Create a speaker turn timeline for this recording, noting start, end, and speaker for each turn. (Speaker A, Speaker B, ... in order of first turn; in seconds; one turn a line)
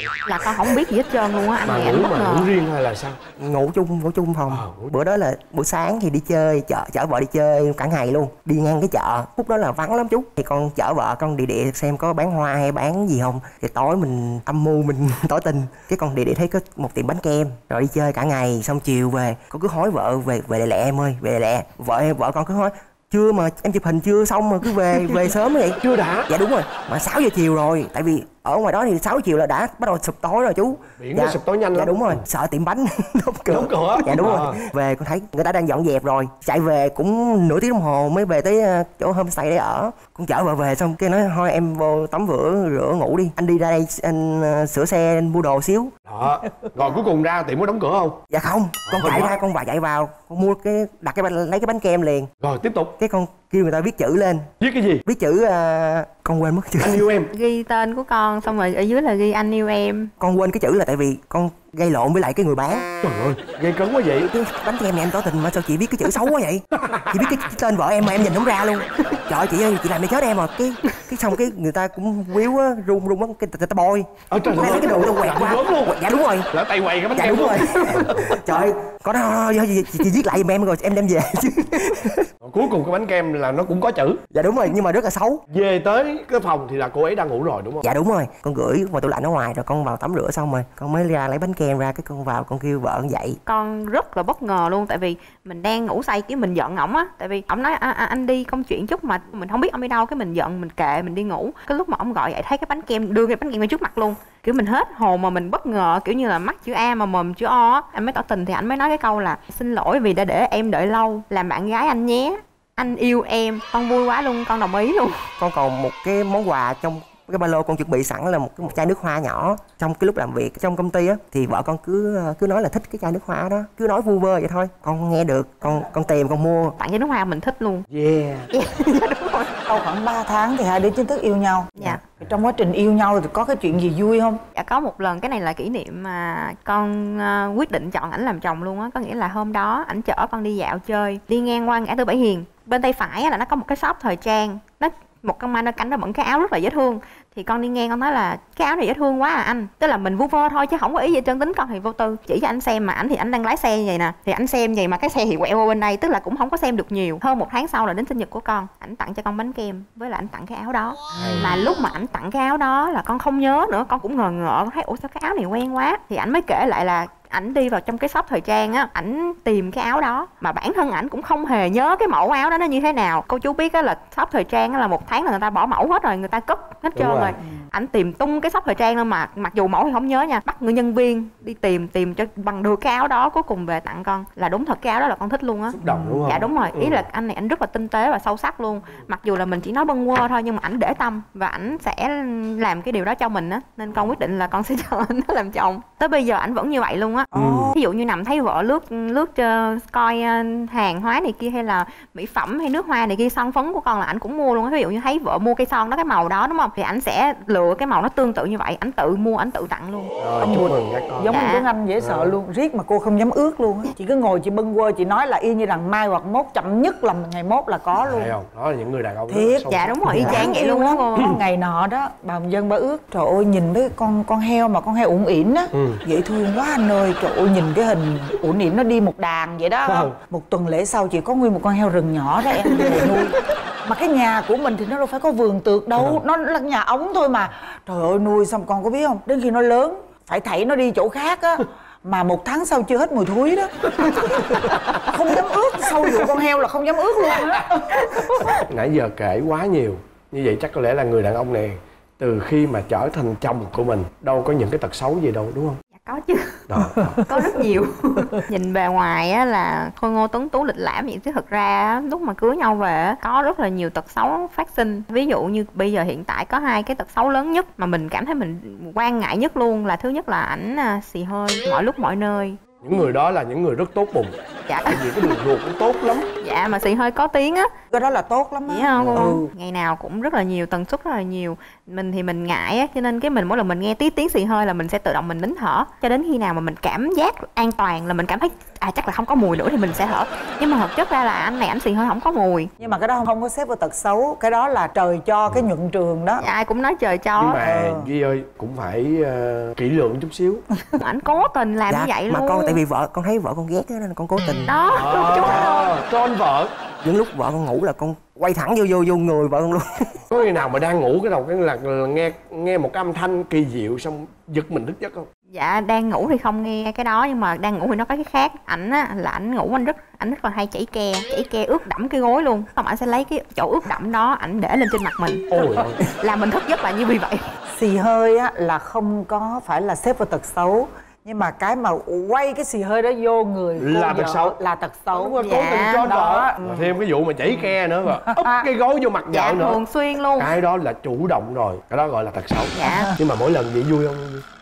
Speaker A: 0.2-2.5
Speaker B: 1.6-3.2
Speaker C: 3.4-45.9
Speaker B: 4.5-4.9
Speaker B: 25.8-26.3
Speaker B: 30.9-32.2
Speaker B: 33.5-34.6
Speaker B: 46.1-48.2
Speaker C: 48.3-52.3
Speaker B: 48.9-49.4
Speaker B: 52.4-53.0
Speaker C: 53.0-54.5
Speaker B: 54.6-55.0
Speaker C: 55.1-57.1
Speaker B: 56.8-57.3
Speaker A: 57.3-60.1
Speaker C: 60.2-62.9
Speaker B: 63.0-64.3
Speaker C: 64.3-76.5
Speaker B: 66.8-67.5
Speaker B: 74.3-76.0
Speaker B: 76.5-78.6
Speaker C: 77.2-82.3
Speaker B: 82.4-84.2
Speaker C: 84.3-85.4
Speaker B: 85.5-87.9
Speaker C: 87.8-93.4
Speaker A: 93.5-115.2
Speaker C: 115.4-126.8
Speaker A: 126.8-127.9
Speaker B: 127.9-128.5
Speaker A: 128.5-129.5
Speaker D: 129.7-134.4
Speaker A: 134.6-210.1
Speaker B: 161.2-161.6
Speaker B: 176.9-177.4
Speaker B: 185.7-187.1
Speaker D: 185.8-186.4
Speaker D: 197.3-197.7
Speaker B: 197.3-197.7
Speaker B: 210.2-211.4
Speaker D: 210.4-218.3
Speaker A: 211.3-211.7
Speaker B: 212.0-212.3
Speaker B: 218.0-220.5
Speaker D: 219.3-248.6
Speaker A: 219.7-221.3
Speaker B: 225.7-226.0
Speaker B: 229.9-230.1
Speaker B: 232.7-233.1
Speaker B: 244.0-245.0
Speaker B: 248.3-255.8
Speaker A: 255.9-256.6
Speaker B: 256.7-257.2
Speaker D: 257.0-257.5
Speaker A: 257.3-272.6
Speaker B: 272.8-276.3
Speaker A: 274.7-275.4
Speaker A: 276.4-277.7
Speaker D: 277.9-279.5
Speaker A: 278.7-292.7
Speaker B: 279.0-279.4
Speaker D: 292.8-296.4
Speaker A: 296.4-297.6
Speaker B: 297.4-300.6
Speaker D: 297.6-298.1
Speaker A: 301.0-302.8
Speaker C: 301.9-304.7
Speaker A: 304.7-305.9
Speaker B: 304.9-306.7
Speaker C: 307.0-310.1
Speaker B: 310.3-315.3
Speaker A: 315.5-325.5
Speaker B: 325.5-326.1
Speaker A: 326.2-327.4
Speaker D: 327.7-336.9
Speaker B: 333.8-334.6
Speaker B: 335.1-339.8
Speaker A: 335.4-336.1
Speaker D: 337.4-337.7
Speaker D: 338.3-338.7
Speaker A: 339.3-340.5
Speaker B: 340.4-344.4
Speaker A: 342.8-343.1
Speaker D: 342.8-343.1